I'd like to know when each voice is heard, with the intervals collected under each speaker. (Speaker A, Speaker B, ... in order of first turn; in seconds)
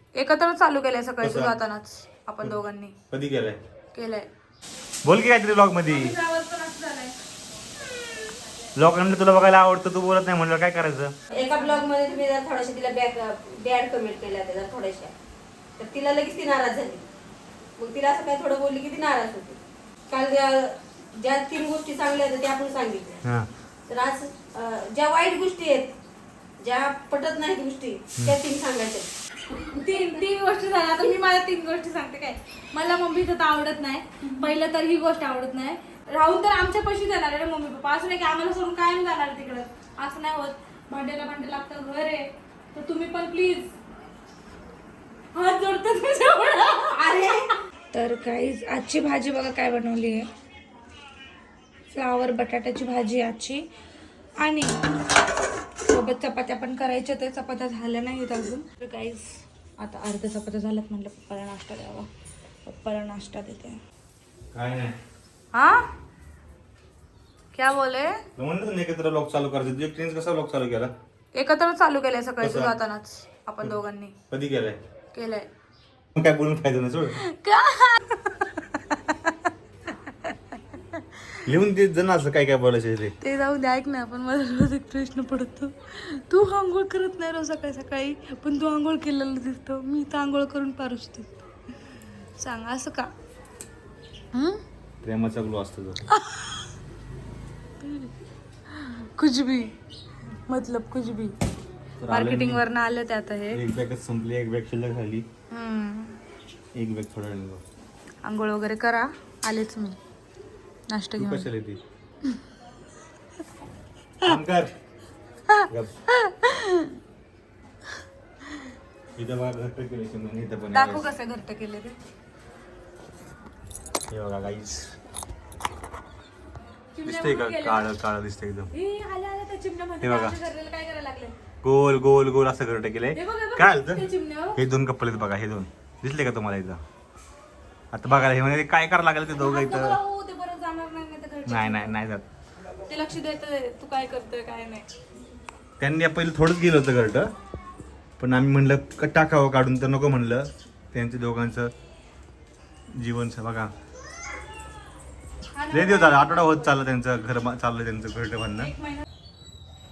Speaker A: 0.1-3.0, 3.9-4.3, 5.9-7.2, 11.5-11.8, 29.6-43.7, 45.4-47.0, 47.9-50.3, 51.9-53.6, 54.4-54.9, 55.9-62.1, 62.7-63.8, 65.5-65.8, 67.5-68.2, 71.3-74.2, 75.1-75.5, 77.2-79.3, 83.2-91.3, 92.4-93.1, 94.3-94.6, 96.1-96.6, 97.8-98.1, 98.7-99.7, 100.5-101.3, 102.1-103.6, 105.5-106.2, 108.2-110.0, 110.9-111.5, 115.5-116.9, 120.7-122.0, 127.0-127.9, 128.7-131.3, 133.2-134.6, 139.4-142.0, 142.9-144.9, 155.5-156.8, 158.6-159.0
Speaker B: 1.2-1.5, 3.1-3.6, 5.0-6.2, 8.8-11.1, 64.5-64.9, 68.4-70.9, 72.4-72.7, 74.3-74.8, 76.2-77.2, 81.5-83.2, 95.0-96.0, 102.0-102.6, 103.5-105.3, 106.7-107.6, 111.2-111.8, 114.2-114.7, 119.2-121.1, 124.1-124.9, 127.0-128.7, 130.0-130.4, 131.6-134.1, 134.6-136.8, 137.9-140.0, 141.5-142.2, 145.8-147.3, 148.2-151.7, 153.0-153.7, 155.7-158.7
Speaker C: 11.3-15.1, 15.8-17.1, 17.8-19.6, 20.1-23.2, 23.9-25.9, 26.6-29.1, 46.9-47.5